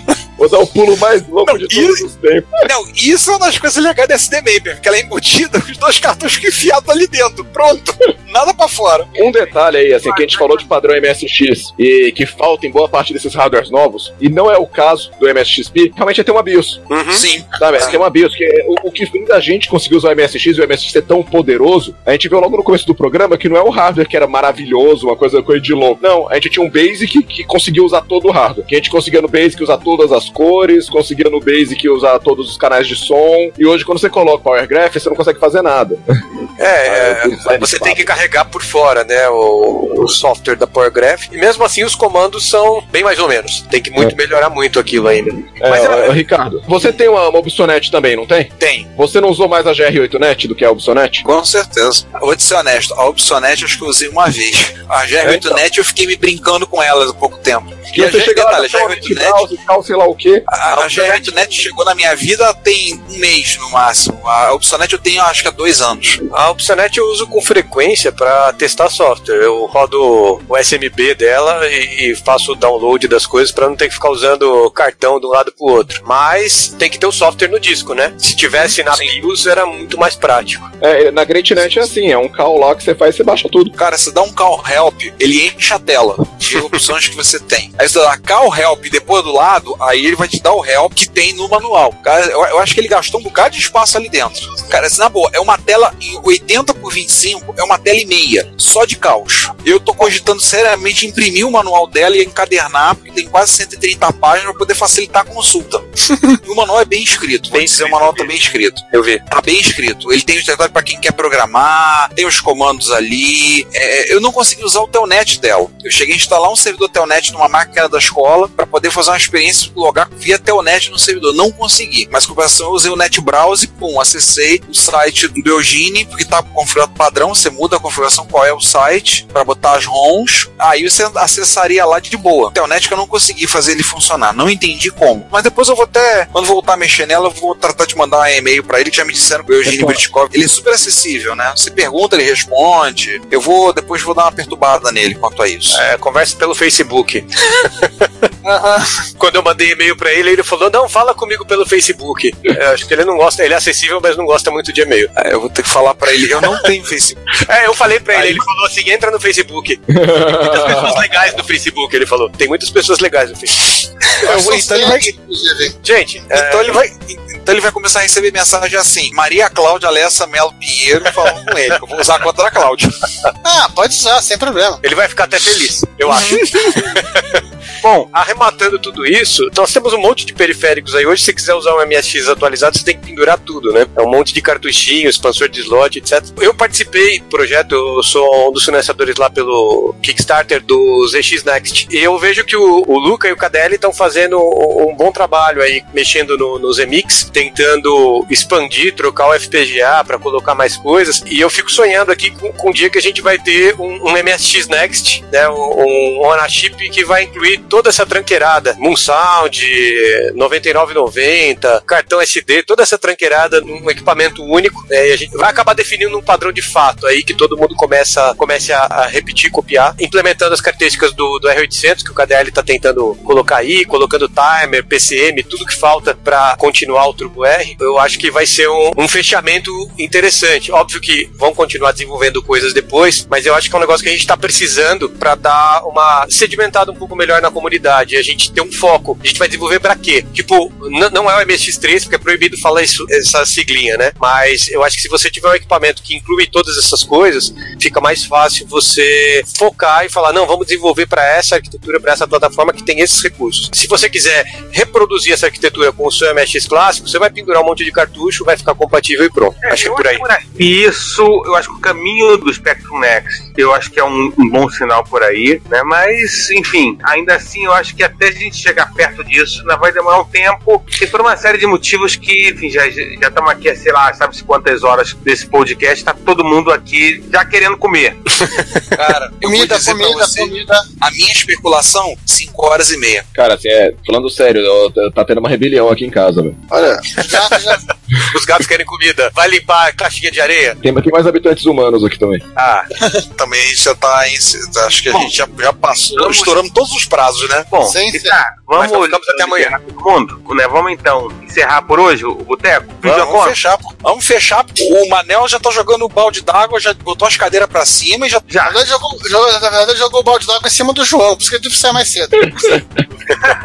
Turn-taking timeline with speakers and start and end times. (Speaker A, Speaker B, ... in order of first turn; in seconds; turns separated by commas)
Speaker A: 0.4-2.6, Speaker B: 1.4-2.0, Speaker B: 2.6-9.1, Speaker A: 9.2-16.9, Speaker C: 16.9-17.9, Speaker B: 17.1-18.0, Speaker A: 17.6-36.0, Speaker C: 36.6-45.5, Speaker A: 36.8-38.1, Speaker A: 45.6-51.2, Speaker B: 45.7-46.1, Speaker B: 48.6-48.9, Speaker B: 51.2-59.4, Speaker A: 55.2-55.6, Speaker A: 57.9-60.4, Speaker B: 60.5-66.2, Speaker C: 60.7-61.6, Speaker C: 66.3-80.7, Speaker A: 80.8-83.7, Speaker B: 83.8-105.9, Speaker B: 106.4-145.8, Speaker C: 107.5-108.3, Speaker C: 108.9-109.2, Speaker C: 145.7-148.1, Speaker D: 148.4-148.9, Speaker C: 149.1-155.1, Speaker B: 155.2-157.4, Speaker C: 157.4-164.2, Speaker B: 158.1-158.4, Speaker A: 159.9-160.8, Speaker B: 164.1-165.1, Speaker D: 164.2-165.7, Speaker C: 165.8-166.8, Speaker B: 166.3-173.0, Speaker D: 173.4-174.8, Speaker C: 174.8-177.4, Speaker B: 176.1-176.9, Speaker E: 177.8-178.1, Speaker C: 178.1-260.2, Speaker E: 259.6-278.4, Speaker B: 278.9-283.2, Speaker D: 279.4-280.8, Speaker A: 283.3-286.6, Speaker D: 286.7-287.9, Speaker C: 288.2-290.8, Speaker A: 290.8-292.4, Speaker B: 292.6-297.7, Speaker E: 297.7-303.6, Speaker D: 297.8-298.4, Speaker C: 298.8-299.8, Speaker B: 303.0-308.5, Speaker D: 308.6-312.8